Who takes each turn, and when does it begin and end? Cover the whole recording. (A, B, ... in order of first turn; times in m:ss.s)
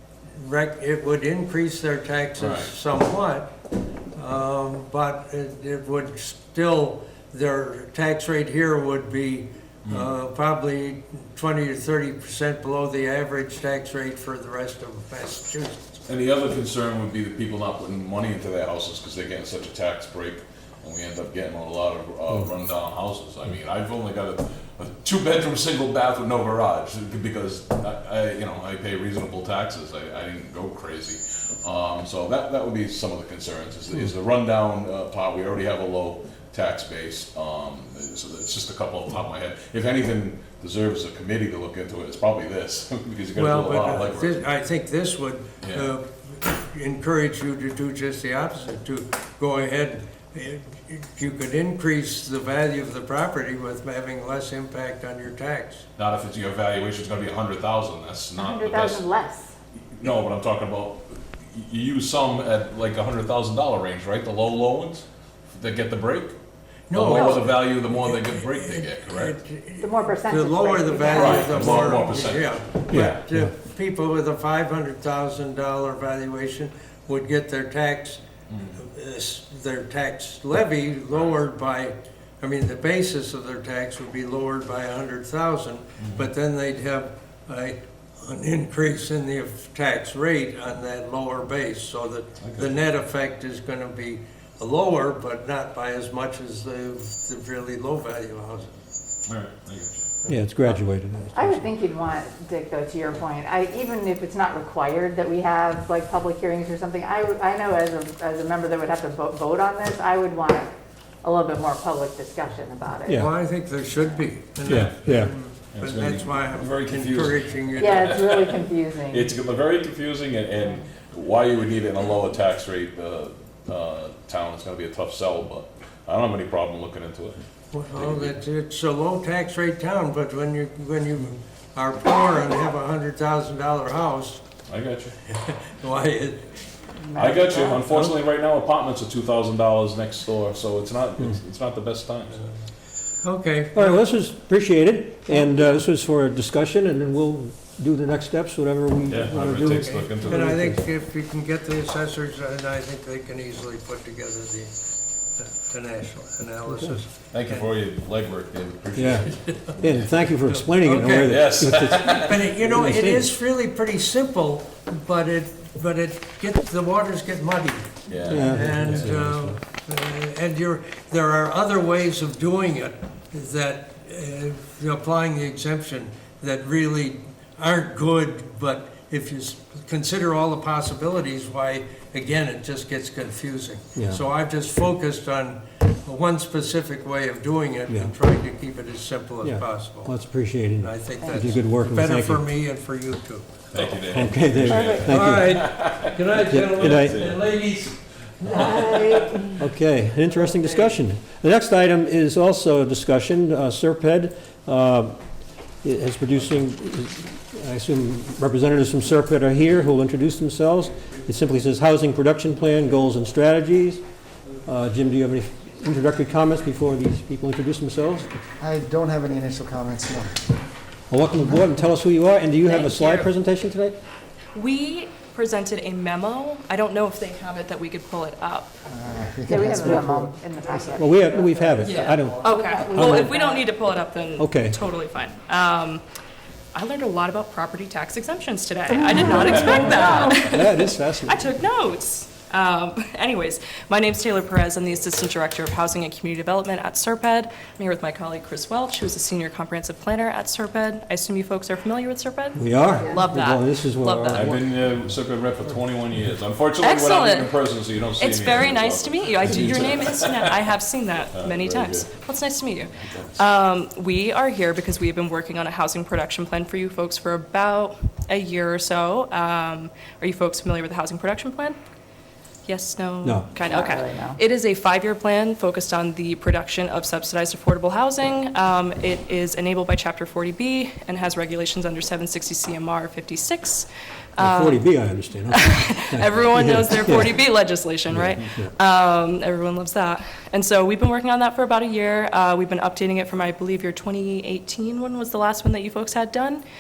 0:00.3-0:03.5 A
0:02.4-0:02.7 B
0:04.1-0:16.0 A
0:09.8-0:10.1 B
0:16.1-0:44.4 B
0:43.4-0:55.9 A
0:45.6-0:45.9 B
0:56.0-0:59.1 B
0:58.4-0:59.5 C
0:59.8-1:06.4 B
1:06.9-1:18.2 A
1:06.9-1:09.4 B
1:09.8-1:12.1 C
1:11.1-1:13.2 B
1:12.9-1:13.5 D
1:18.5-1:18.8 B
1:18.8-1:38.7 A
1:32.4-1:32.8 B
1:39.3-1:40.1 B
1:40.3-1:41.7 D
1:41.4-1:50.7 C
1:51.2-1:53.3 C
1:53.1-1:53.3 D
1:53.1-1:58.2 A
1:53.9-1:54.2 C
1:54.7-1:55.3 D
1:55.7-2:07.4 B
1:57.8-1:59.3 C
2:00.6-2:00.9 C
2:07.7-2:14.4 A
2:07.9-2:08.4 B
2:14.7-2:15.2 B
2:15.3-2:16.5 A
2:17.0-2:17.9 C
2:17.1-2:22.4 B
2:23.2-2:24.0 A
2:23.8-2:30.8 D
2:29.1-2:30.5 B
2:29.9-2:34.7 A
2:35.4-2:37.6 A
2:36.7-2:36.9 D
2:37.3-2:39.7 B
2:39.0-2:43.3 D
2:39.5-2:39.7 A
2:40.5-3:10.1 A
2:41.3-2:42.4 B
2:48.1-2:49.1 B
2:48.3-2:49.6 D
3:04.0-3:04.2 D
3:09.4-3:12.5 D
3:10.8-3:13.5 A
3:13.7-3:17.6 B
3:14.0-3:15.6 D
3:14.6-3:15.4 C
3:15.1-3:18.0 A
3:16.4-3:17.3 D
3:18.5-3:18.9 A
3:18.5-3:19.3 B
3:18.5-3:19.4 C
3:19.6-3:25.2 D
3:20.4-3:20.9 A
3:25.8-3:34.0 D
3:34.6-3:38.4 D
3:38.6-3:40.5 E
3:41.1-3:44.0 D
3:42.6-3:43.3 F
3:44.5-3:48.7 F
3:48.8-3:51.1 E
3:49.5-3:53.8 C
3:49.5-3:50.1 D
3:50.9-3:53.3 D
3:51.8-3:56.0 F
3:54.4-3:54.8 D
3:56.7-4:14.5 F
3:59.2-4:00.1 C
3:59.5-4:01.5 D
4:12.6-4:14.9 D
4:14.3-4:20.6 B
4:16.8-4:31.8 F
4:21.3-4:22.2 B
4:22.9-4:23.4 B
4:32.6-4:44.9 F
4:33.2-4:33.5 D
4:33.7-4:34.4 C
4:44.4-4:47.4 D
4:45.5-4:56.6 F
4:48.1-4:48.7 D